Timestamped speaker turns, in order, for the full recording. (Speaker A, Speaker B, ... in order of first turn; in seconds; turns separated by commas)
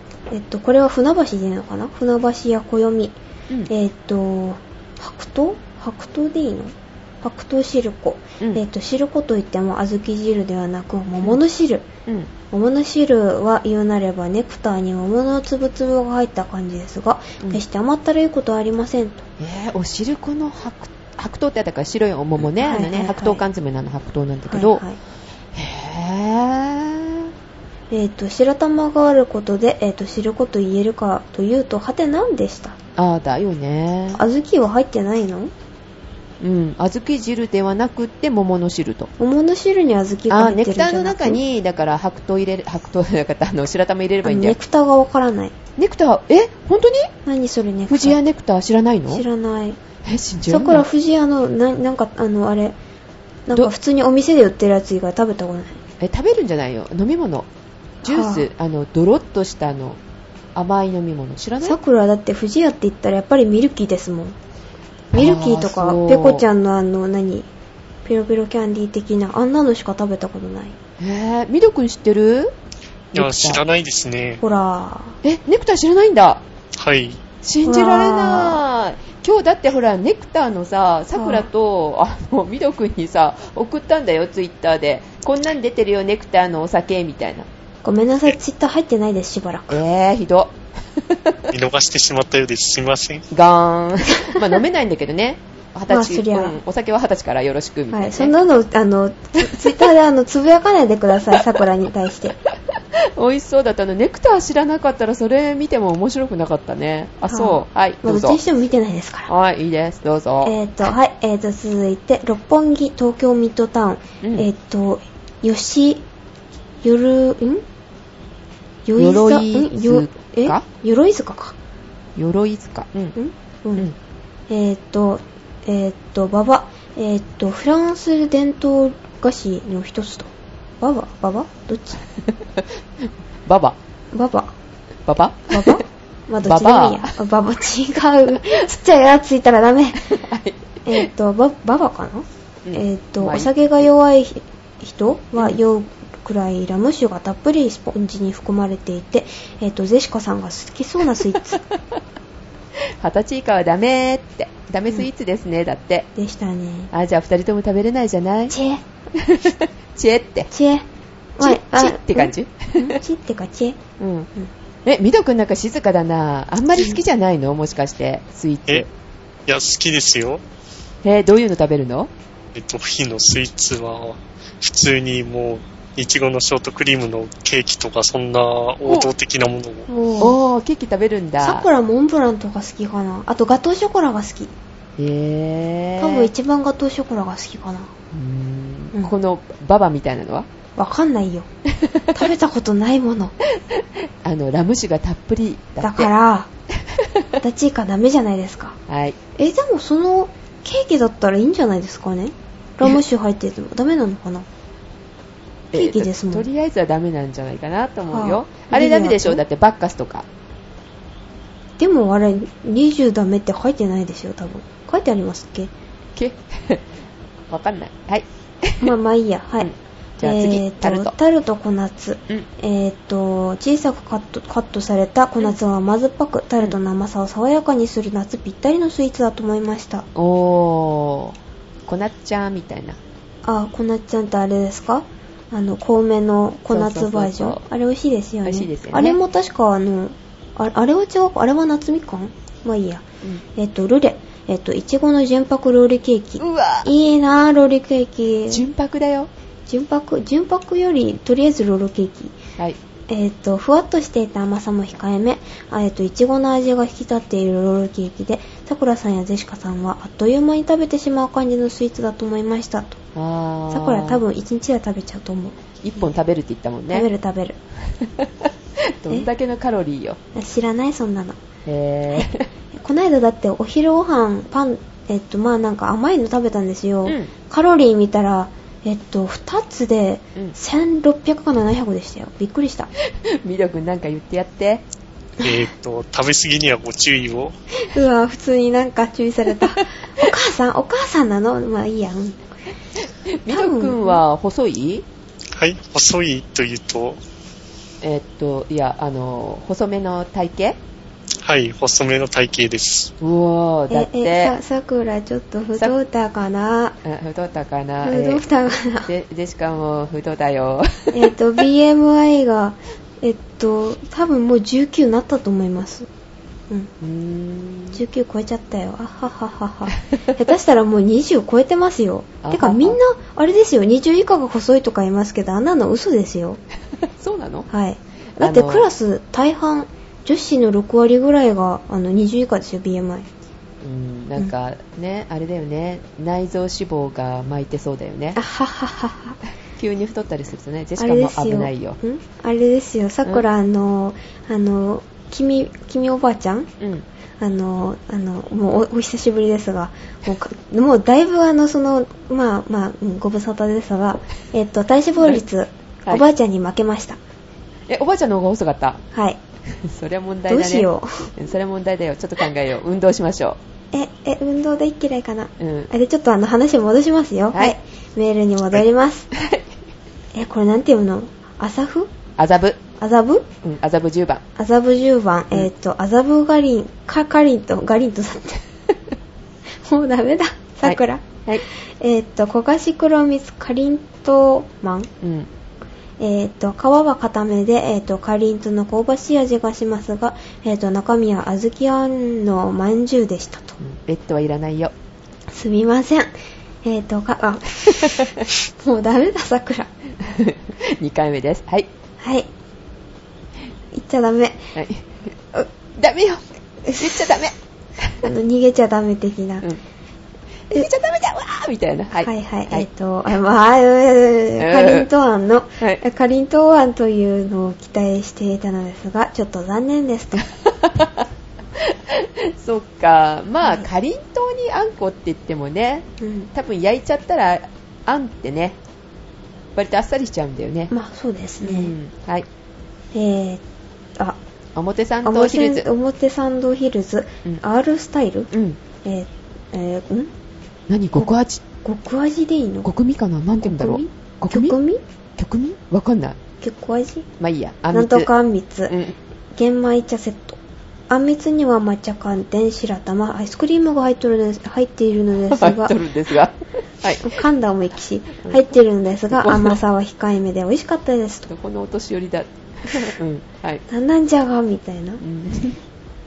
Speaker A: 0.3-11.8, Speaker A: 12.5-19.2, Speaker B: 19.4-24.8, Speaker A: 22.6-23.4, Speaker A: 24.5-25.0, Speaker B: 25.5-27.3, Speaker A: 27.9-32.8, Speaker B: 33.0-34.2, Speaker A: 34.1-35.5, Speaker B: 36.4-39.1, Speaker A: 39.2-41.4, Speaker B: 40.3-44.6, Speaker A: 44.2-45.5, Speaker B: 45.8-47.1, Speaker A: 47.2-48.2, Speaker B: 47.9-49.2, Speaker A: 49.1-49.8, Speaker B: 50.0-50.9, Speaker A: 50.5-52.8, Speaker A: 53.5-55.8, Speaker B: 56.0-57.5, Speaker A: 58.0-58.5, Speaker B: 58.0-60.0, Speaker B: 60.5-61.8, Speaker A: 61.6-64.3, Speaker B: 65.1-66.5, Speaker A: 65.1-67.5, Speaker A: 68.0-70.8, Speaker B: 71.0-72.5, Speaker B: 73.1-73.6, Speaker C: 73.2-74.4, Speaker A: 74.4-75.2, Speaker B: 75.2-76.4, Speaker C: 76.8-77.2, Speaker B: 77.4-87.5, Speaker A: 77.7-78.6, Speaker A: 81.2-81.5, Speaker A: 87.8-89.8, Speaker B: 89.7-91.5, Speaker C: 91.5-93.3, Speaker B: 93.3-98.3, Speaker A: 95.9-96.6, Speaker A: 97.9-102.4, Speaker B: 99.4-99.8, Speaker B: 103.0-108.4, Speaker A: 107.3-109.3, Speaker B: 109.3-110.6, Speaker A: 110.4-116.0, Speaker B: 114.2-114.5, Speaker A: 116.8-117.6, Speaker A: 118.9-121.5, Speaker B: 119.0-120.7, Speaker B: 122.2-123.2, Speaker A: 123.2-123.9, Speaker A: 124.5-132.0, Speaker B: 132.5-133.8, Speaker A: 134.1-134.5, Speaker B: 135.1-135.8, Speaker A: 135.5-140.1, Speaker B: 136.4-137.1, Speaker B: 140.1-141.1, Speaker A: 140.8-151.6, Speaker B: 142.7-143.9, Speaker B: 152.8-156.1, Speaker A: 156.2-156.9, Speaker B: 156.9-158.6, Speaker A: 158.5-158.8, Speaker B: 159.2-160.5, Speaker A: 160.5-160.8, Speaker A: 161.4-163.8, Speaker B: 161.4-162.9, Speaker B: 164.0-164.3, Speaker B: 164.9-168.9, Speaker C: 169.5-170.4, Speaker B: 171.0-172.1, Speaker C: 172.6-179.9, Speaker A: 179.9-180.4, Speaker B: 180.2-181.7, Speaker A: 181.4-184.5, Speaker B: 185.0-186.3, Speaker A: 186.0-187.9, Speaker B: 188.1-190.5, Speaker A: 190.8-191.5, Speaker B: 191.7-192.2, Speaker A: 192.1-193.3, Speaker B: 193.6-196.1, Speaker A: 195.8-196.5, Speaker B: 196.8-197.3, Speaker A: 197.4-198.8, Speaker B: 198.9-199.2, Speaker A: 199.4-204.5, Speaker B: 205.7-210.3, Speaker A: 205.7-206.5, Speaker A: 208.1-209.4, Speaker A: 211.8-215.7, Speaker B: 216.2-216.9, Speaker B: 217.5-218.9, Speaker A: 218.8-230.1, Speaker B: 219.6-221.1, Speaker B: 230.2-233.0, Speaker A: 233.4-243.0, Speaker B: 236.7-237.7, Speaker B: 238.4-239.2, Speaker A: 243.6-248.6, Speaker B: 246.4-246.9, Speaker B: 248.5-249.3, Speaker A: 249.7-252.4, Speaker A: 253.1-263.0, Speaker B: 263.1-264.2, Speaker A: 263.7-265.6, Speaker B: 265.8-267.1, Speaker A: 266.9-267.6, Speaker B: 268.0-270.2, Speaker A: 270.3-271.4, Speaker B: 271.7-272.5, Speaker A: 272.1-282.9, Speaker B: 277.1-277.3, Speaker B: 283.1-284.8, Speaker C: 285.4-287.5, Speaker A: 287.8-292.5, Speaker B: 293.0-295.1, Speaker A: 293.5-294.2, Speaker C: 295.5-297.2, Speaker B: 298.0-300.8, Speaker C: 301.4-303.1, Speaker B: 303.2-304.6, Speaker A: 303.9-307.0, Speaker B: 307.0-308.4, Speaker A: 308.0-309.1, Speaker B: 309.0-311.3, Speaker A: 311.1-316.1, Speaker B: 317.0-318.0, Speaker A: 317.9-326.6, Speaker B: 322.4-323.0, Speaker B: 327.2-327.7, Speaker A: 327.7-333.3, Speaker B: 328.4-328.9, Speaker B: 333.8-338.4, Speaker A: 338.4-339.4, Speaker B: 339.8-342.0, Speaker A: 341.0-346.7, Speaker B: 346.8-347.1, Speaker A: 347.4-357.2, Speaker B: 357.9-359.0, Speaker A: 359.1-359.4, Speaker B: 359.7-363.6, Speaker A: 360.5-361.3, Speaker A: 363.9-369.3, Speaker B: 365.6-365.9, Speaker B: 369.4-369.7, Speaker A: 370.3-372.1, Speaker B: 372.4-372.8, Speaker A: 373.0-373.5, Speaker B: 373.6-374.4, Speaker A: 374.6-378.6, Speaker A: 379.8-385.1, Speaker B: 380.8-381.6, Speaker B: 385.2-385.5, Speaker A: 386.2-393.8, Speaker B: 393.8-394.9, Speaker A: 395.5-396.3, Speaker A: 396.8-399.9, Speaker B: 398.1-398.4, Speaker B: 400.2-401.9, Speaker A: 402.2-402.5, Speaker A: 403.9-404.7, Speaker B: 404.8-405.3, Speaker B: 406.0-406.4, Speaker A: 406.9-407.4, Speaker B: 407.0-408.3, Speaker A: 408.2-409.7, Speaker B: 410.7-412.9, Speaker A: 412.2-420.5, Speaker B: 414.6-415.1, Speaker B: 420.6-421.2, Speaker B: 421.8-428.8, Speaker A: 426.2-426.5, Speaker B: 429.8-430.9, Speaker A: 430.9-431.9, Speaker B: 431.6-432.5, Speaker A: 433.1-433.6, Speaker B: 434.8-435.9, Speaker A: 435.2-438.5, Speaker B: 438.5-438.8, Speaker A: 439.0-440.3, Speaker B: 440.9-441.6, Speaker A: 441.8-442.9, Speaker B: 442.8-444.8, Speaker A: 443.6-445.0, Speaker B: 445.4-446.4, Speaker A: 446.6-447.3, Speaker B: 447.4-448.3, Speaker A: 447.9-448.9, Speaker B: 448.9-449.2, Speaker A: 449.6-450.6, Speaker A: 451.1-456.0, Speaker B: 455.5-457.4, Speaker A: 457.2-461.5, Speaker B: 459.3-459.8, Speaker B: 461.5-463.8, Speaker A: 463.9-465.2, Speaker B: 465.2-465.8